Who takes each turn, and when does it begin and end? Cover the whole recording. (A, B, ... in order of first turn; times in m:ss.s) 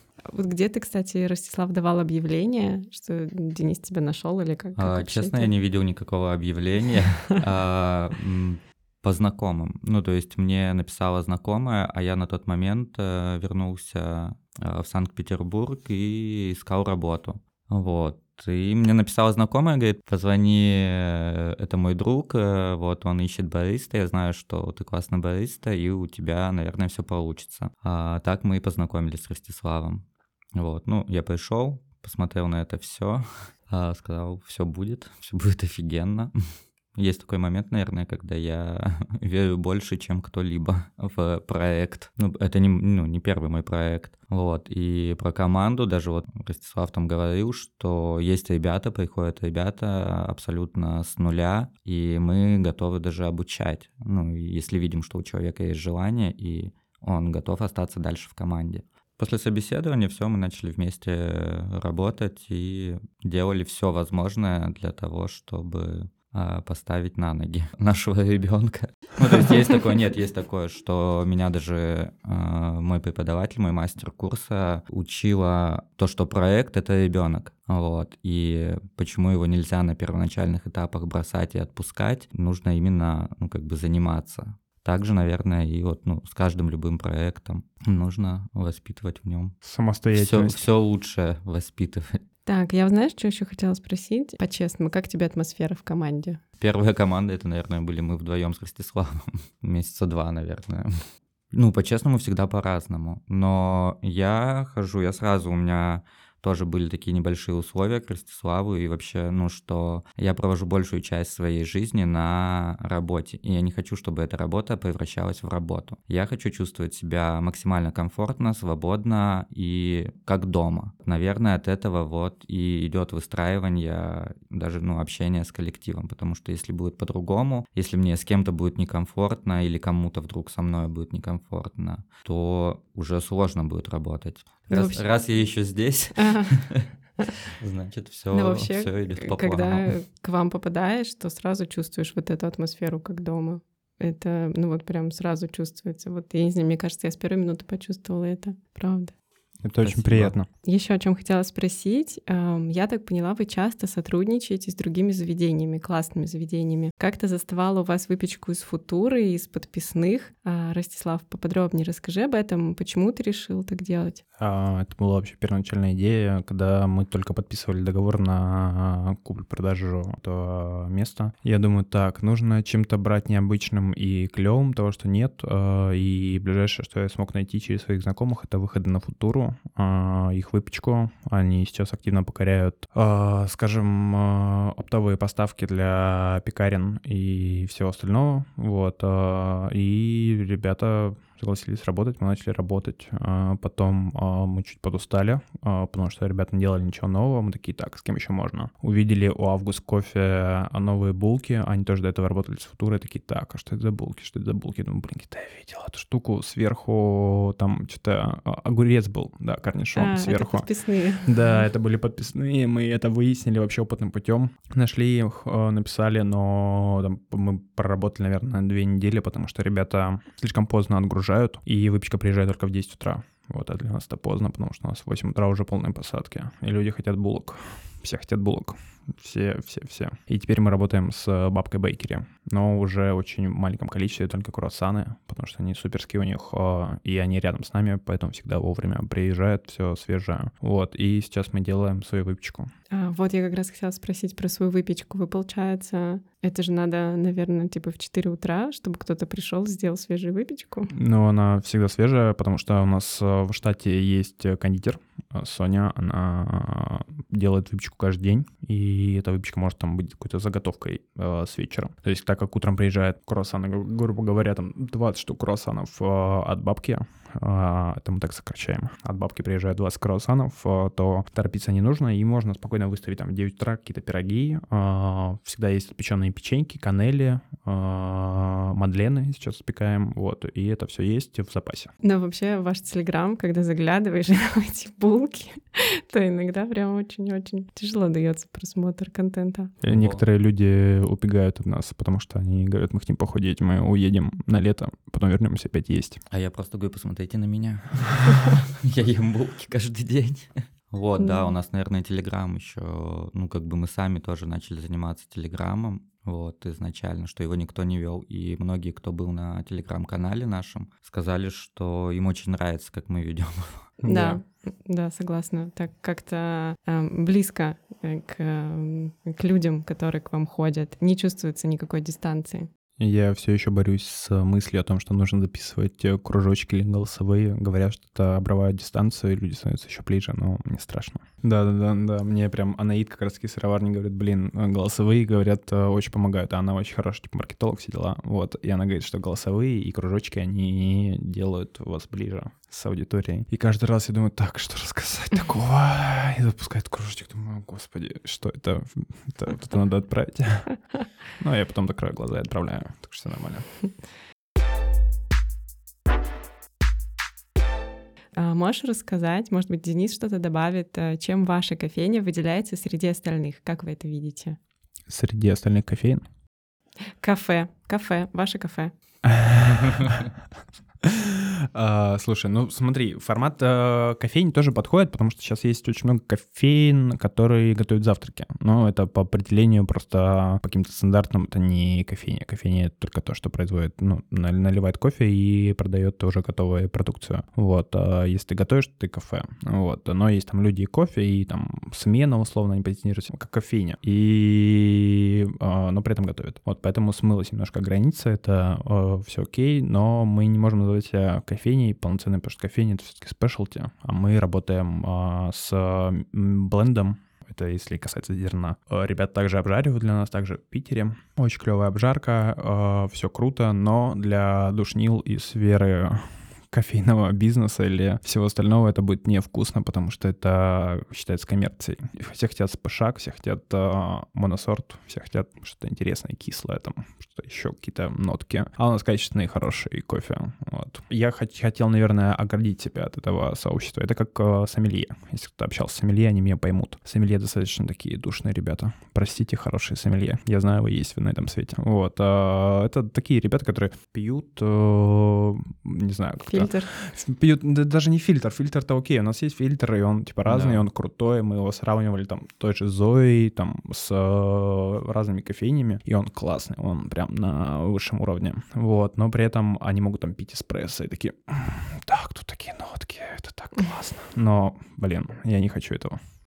0:00.2-0:05.5 A
0:04.8-0:30.0 B
0:30.5-0:36.3 B
0:36.9-1:29.6 B
1:29.6-1:30.6 C
1:30.1-1:32.2 B
1:32.4-1:36.4 A
1:36.6-1:40.9 B
1:41.5-2:16.9 B
2:14.7-2:15.1 A
2:16.1-2:16.6 A
2:17.5-2:19.9 B
2:18.3-2:29.1 A
2:29.6-2:30.5 C
2:29.8-2:30.4 B
2:30.6-2:44.2 A
2:44.4-3:30.7 C
3:30.0-3:31.5 A
3:31.2-4:02.7 C
4:02.9-4:10.9 A
4:10.9-4:41.9 C
4:42.0-4:49.7 A
4:49.8-4:56.2 C
4:49.9-4:50.2 B
4:56.3-5:13.9 B
5:01.2-5:01.5 A
5:14.0-5:14.4 C
5:14.0-5:22.7 A
5:23.0-5:53.8 C
5:58.4-6:04.6 A
6:05.1-6:06.2 C
6:07.2-6:08.9 A
6:09.2-6:10.2 C
6:11.7-7:46.2 C
7:26.4-7:26.9 A
7:30.4-7:30.9 B